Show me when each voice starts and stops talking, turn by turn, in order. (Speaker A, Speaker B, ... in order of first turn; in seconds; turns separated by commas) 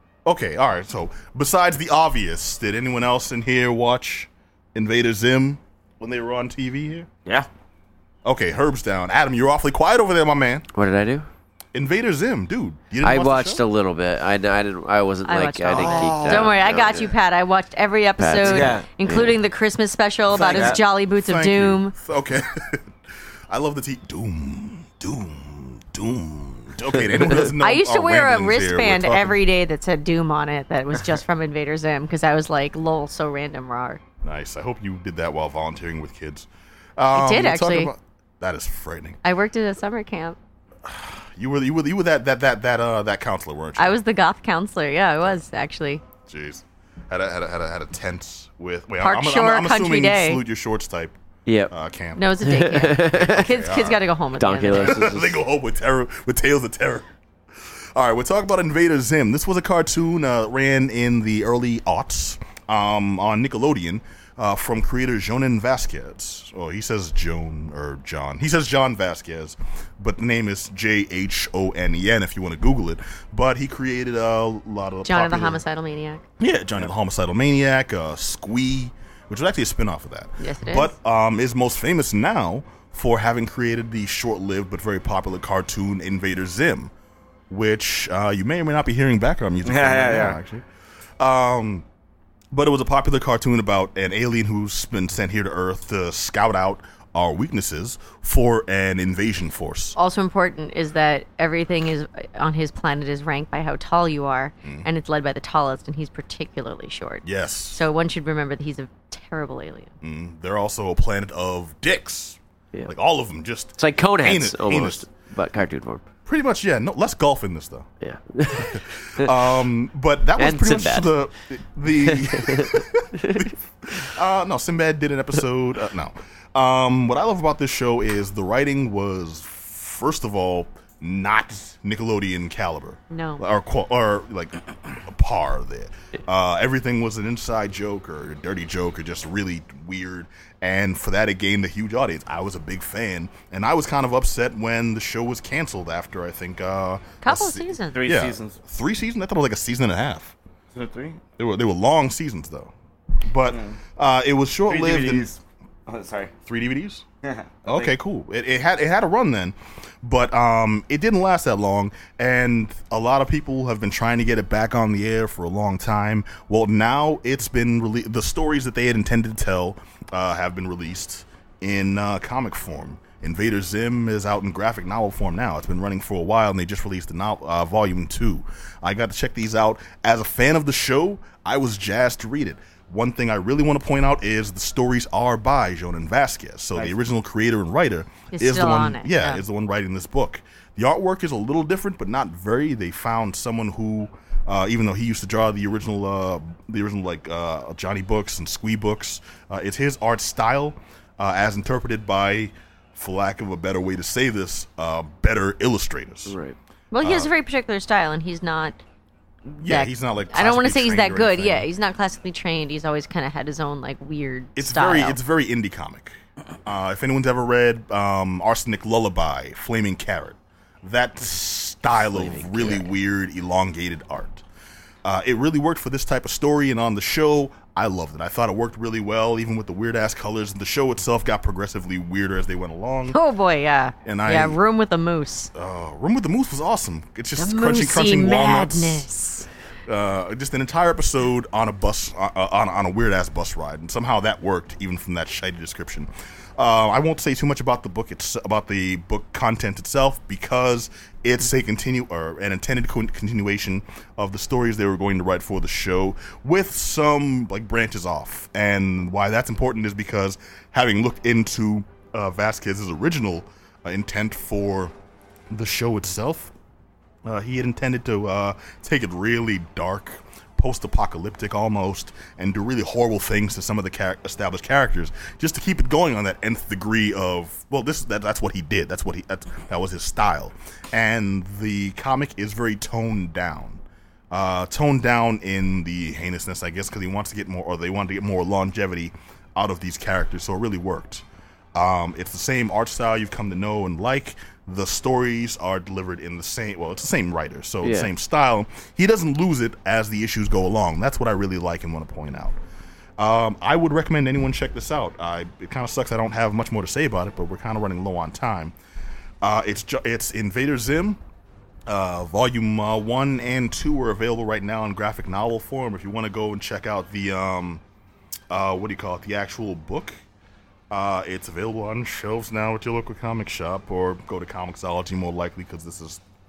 Speaker A: 0.3-7.1, Speaker A: 8.2-10.7, Speaker B: 10.7-11.3, Speaker A: 11.7-13.6, Speaker B: 13.0-17.2, Speaker C: 15.2-21.9, Speaker A: 15.7-16.6, Speaker B: 18.2-19.4, Speaker D: 18.4-18.9, Speaker A: 20.3-22.9, Speaker D: 20.4-20.8, Speaker A: 23.5-29.4, Speaker C: 27.6-34.0, Speaker A: 34.2-39.2, Speaker C: 37.1-37.9, Speaker C: 39.2-40.4, Speaker A: 40.9-44.0, Speaker C: 43.8-46.0, Speaker A: 46.3-51.2, Speaker C: 49.0-50.4, Speaker B: 51.5-51.7, Speaker A: 51.7-52.3, Speaker C: 52.2-55.1, Speaker B: 52.4-53.4, Speaker A: 53.2-54.0, Speaker B: 54.4-55.4, Speaker A: 54.7-57.1, Speaker A: 58.0-75.6, Speaker C: 75.0-76.2, Speaker A: 76.4-86.9, Speaker C: 80.4-80.9, Speaker A: 87.5-90.6, Speaker D: 89.7-90.4, Speaker A: 91.2-91.8, Speaker A: 92.5-100.0, Speaker C: 100.0-109.9, Speaker A: 107.2-107.8, Speaker A: 110.0-115.0, Speaker B: 113.8-116.1, Speaker A: 116.3-117.9, Speaker B: 118.0-119.6, Speaker A: 118.7-150.4, Speaker B: 120.4-121.2, Speaker B: 121.9-123.5, Speaker C: 133.1-133.4, Speaker C: 147.2-148.0, Speaker D: 147.9-148.6, Speaker D: 150.7-151.2, Speaker A: 151.4-152.7, Speaker A: 153.2-155.3, Speaker D: 153.5-153.8, Speaker D: 154.7-156.3, Speaker A: 156.4-157.1, Speaker D: 157.2-157.9, Speaker A: 157.7-206.4, Speaker C: 188.3-189.4, Speaker B: 206.3-206.6, Speaker C: 206.9-208.8, Speaker A: 207.0-207.3, Speaker A: 209.6-211.7, Speaker C: 209.6-215.2, Speaker A: 214.6-224.4, Speaker B: 222.0-222.9, Speaker A: 225.1-233.2, Speaker C: 233.1-235.5, Speaker A: 234.0-234.6, Speaker A: 235.5-239.1, Speaker C: 237.4-239.5, Speaker A: 239.9-264.9, Speaker A: 265.5-266.5, Speaker A: 267.2-302.6, Speaker B: 297.8-298.1, Speaker A: 303.2-308.7, Speaker A: 309.4-311.2, Speaker A: 311.9-317.8, Speaker A: 318.5-320.2, Speaker A: 320.9-326.2